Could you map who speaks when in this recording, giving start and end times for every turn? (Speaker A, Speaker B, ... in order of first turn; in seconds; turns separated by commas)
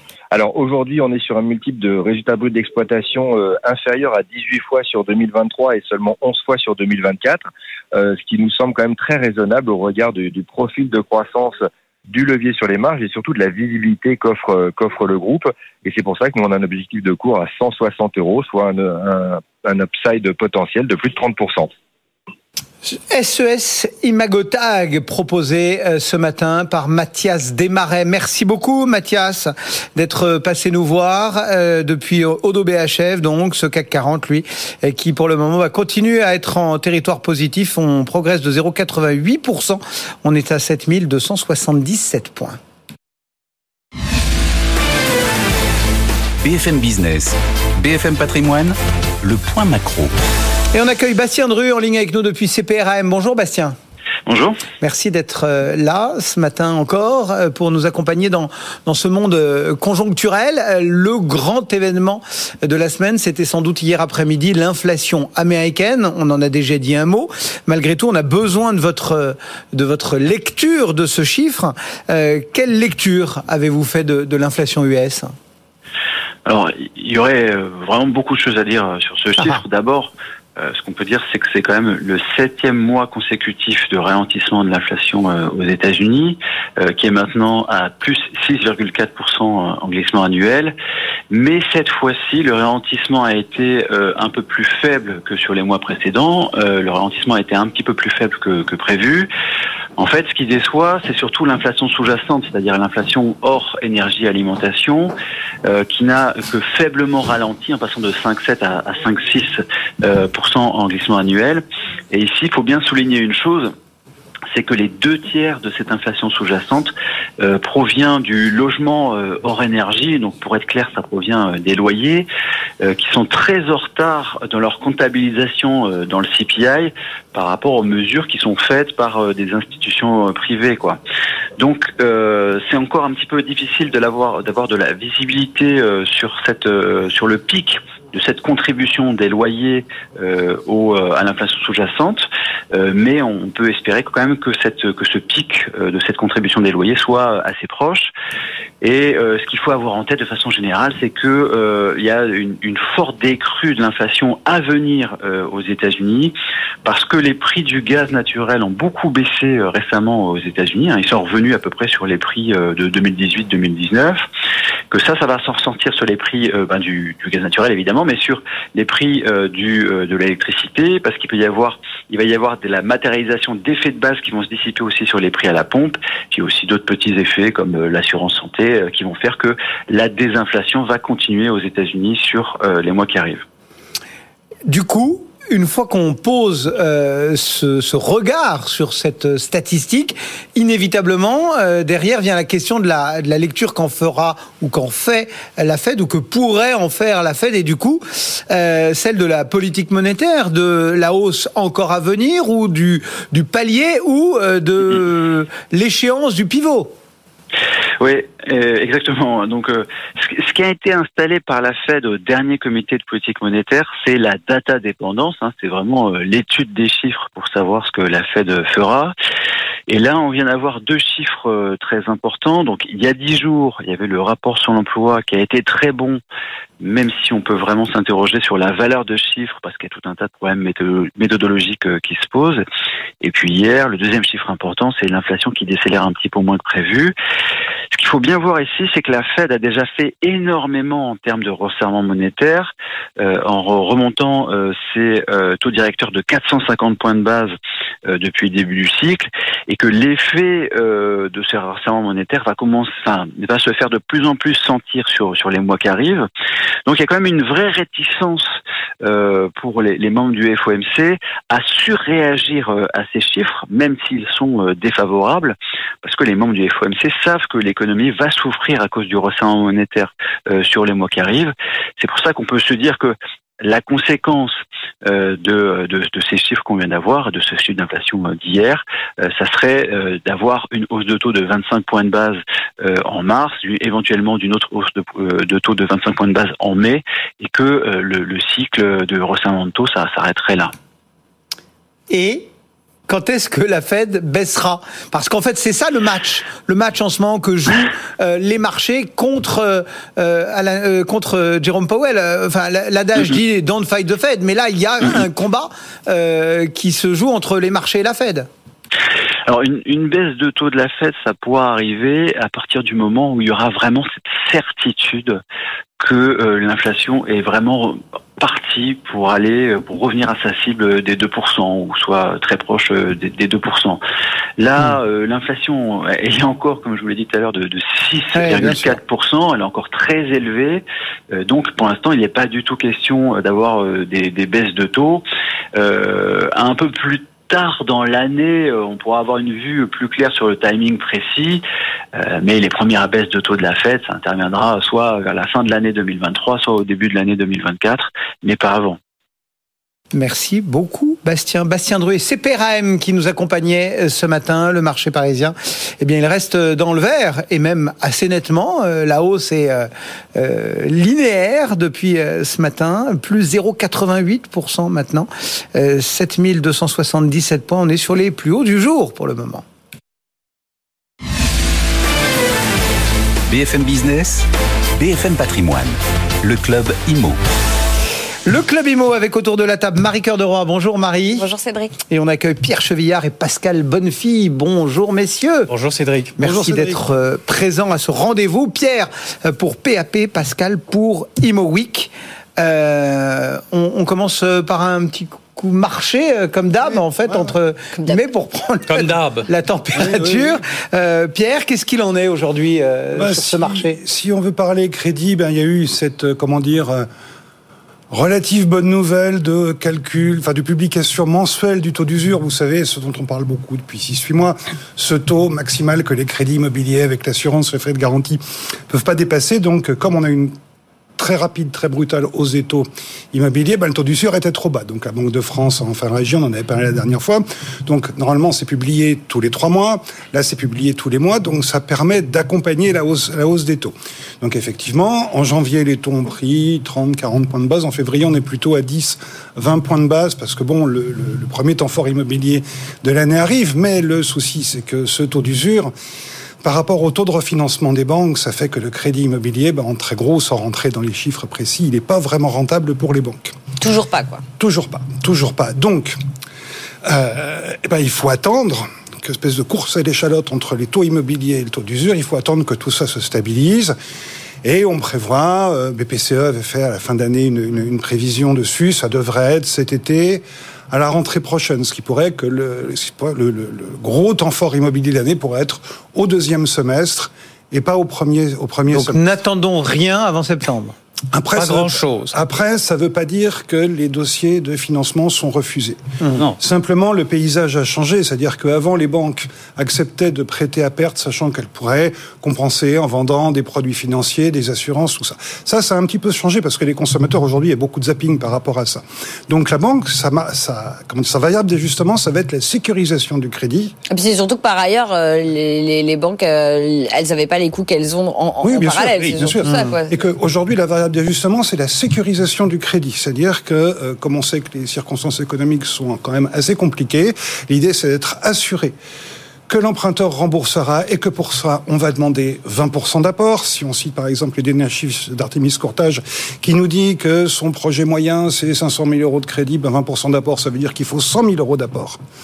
Speaker A: 0.3-21.7, Speaker B: 22.8-42.6, Speaker C: 46.4-50.1, Speaker B: 50.7-53.8, Speaker D: 54.3-54.6, Speaker B: 54.8-75.3, Speaker D: 76.5-90.7, Speaker B: 79.4-79.6, Speaker D: 91.3-99.3, Speaker D: 100.0-105.1, Speaker D: 105.7-113.7, Speaker D: 114.5-122.3, Speaker D: 122.8-131.0, Speaker D: 131.6-148.1, Speaker D: 148.8-164.2, Speaker D: 164.9-183.4, Speaker B: 184.7-206.9, Speaker D: 208.0-219.1, Speaker D: 219.9-226.2, Speaker D: 226.8-232.6, Speaker D: 233.2-237.1, Speaker D: 237.9-247.5, Speaker D: 248.1-256.3, Speaker D: 256.9-258.5, Speaker D: 259.0-290.7, Speaker B: 292.1-292.5, Speaker B: 293.1-308.5, Speaker D: 309.5-315.4, Speaker D: 316.0-324.0, Speaker D: 324.6-335.2, Speaker B: 328.3-328.9, Speaker D: 335.8-341.6, Speaker D: 342.1-349.0, Speaker B: 350.1-369.6, Speaker C: 373.5-374.4, Speaker C: 375.0-377.4, Speaker B: 378.4-381.4, Speaker E: 381.3-381.9, Speaker B: 382.1-385.7, Speaker F: 385.7-386.4, Speaker B: 386.4-404.0, Speaker G: 386.4-387.0, Speaker G: 396.9-397.5, Speaker F: 398.9-399.5, Speaker G: 399.9-400.6, Speaker G: 403.1-407.1, Speaker G: 408.1-420.5, Speaker G: 421.2-445.9, Speaker G: 446.6-453.5, Speaker E: 453.8-454.4, Speaker G: 454.6-456.2, Speaker G: 457.0-463.9, Speaker G: 464.6-479.2, Speaker B: 478.9-480.9, Speaker G: 481.3-486.0, Speaker F: 481.6-482.3, Speaker G: 486.6-503.9, Speaker E: 504.1-510.1, Speaker G: 508.6-518.9, Speaker B: 509.6-510.0, Speaker G: 519.7-532.2